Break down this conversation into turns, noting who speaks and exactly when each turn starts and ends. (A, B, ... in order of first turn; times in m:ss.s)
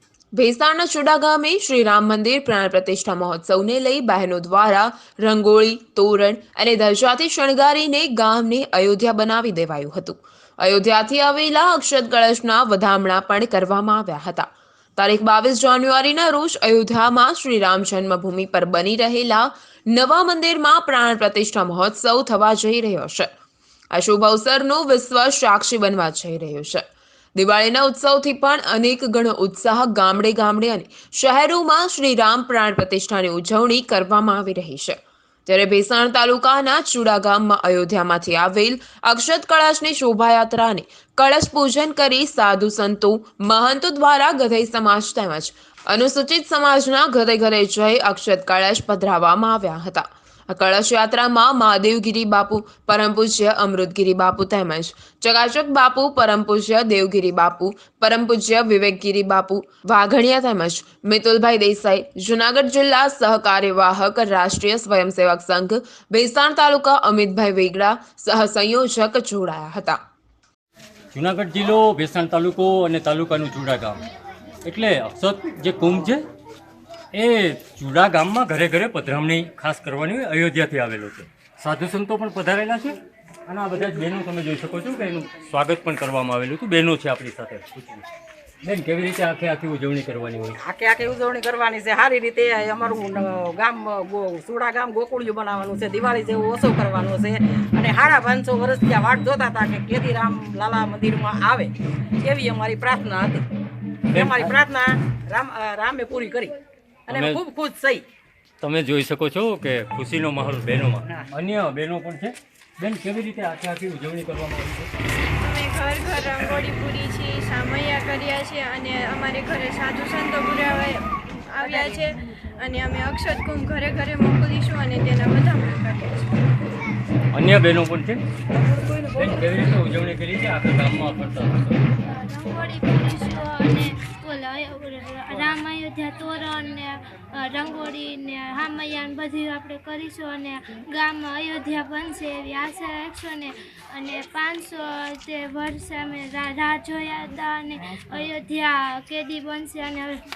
0:00.3-0:23.3 A
0:23.9-0:26.8 A
0:27.4-1:10.0 A
1:11.1-1:14.0 B
1:14.6-1:16.2 B
1:17.1-1:28.0 B
1:28.6-1:30.6 B
1:30.6-1:43.5 C
1:44.1-1:44.6 B
1:44.1-1:46.5 C
1:47.1-1:48.0 C
1:47.1-1:47.4 B
1:48.6-1:54.9 B
1:55.6-1:59.1 D
1:59.6-2:00.8 D
2:01.6-2:02.0 C
2:03.0-2:05.8 D
2:07.3-2:08.2 B
2:09.1-2:11.8 B
2:12.0-2:30.2 E